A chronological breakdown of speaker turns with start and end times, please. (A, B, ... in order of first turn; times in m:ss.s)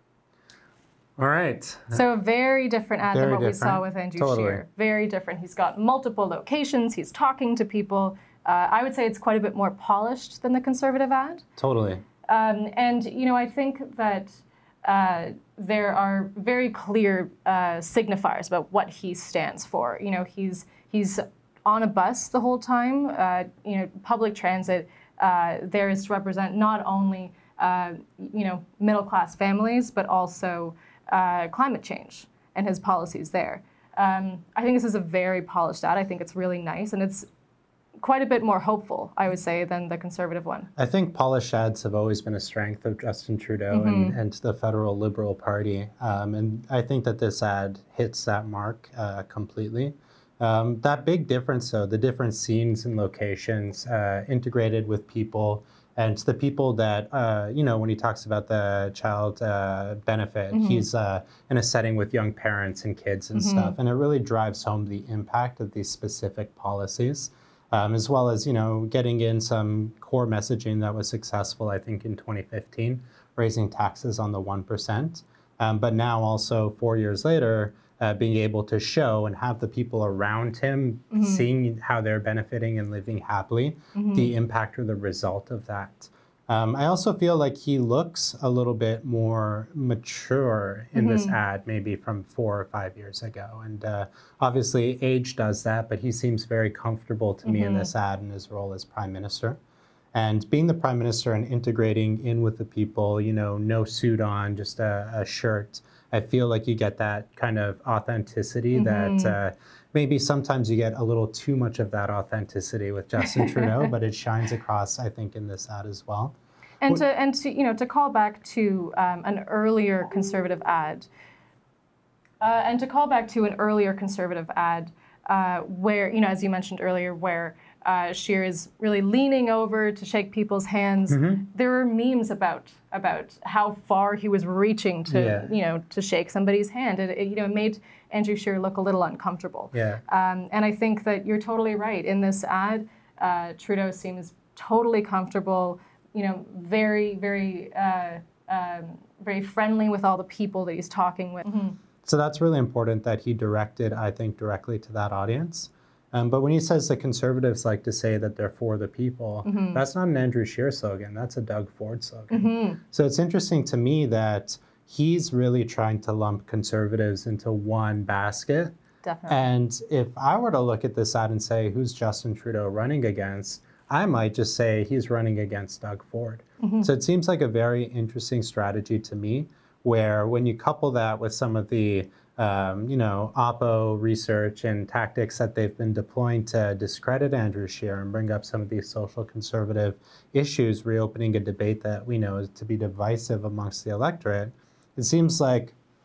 0:01.2-0:02.0 A
0:01.9-0:11.4 B
0:03.1-0:04.6 A
0:11.6-0:12.0 A
0:12.2-0:37.2 B
0:38.0-0:40.7 B
0:40.8-1:39.6 A
0:43.7-0:44.2 B
1:00.5-1:00.9 B
1:03.4-1:03.8 B
1:21.1-1:21.4 B
1:23.9-1:24.3 B
1:30.9-1:31.4 B
1:37.4-1:37.9 B
1:40.1-1:56.4 A
1:48.7-1:49.4 B
1:53.3-1:53.7 B
1:56.8-2:01.1 B
2:02.4-2:31.8 B
2:11.1-2:11.4 A
2:15.1-2:15.5 A
2:19.7-2:20.0 A
2:32.0-2:48.7 A
2:39.4-2:39.8 B
2:42.3-2:42.8 B
2:49.0-2:49.4 B
2:49.3-3:15.8 A
2:56.6-2:56.9 B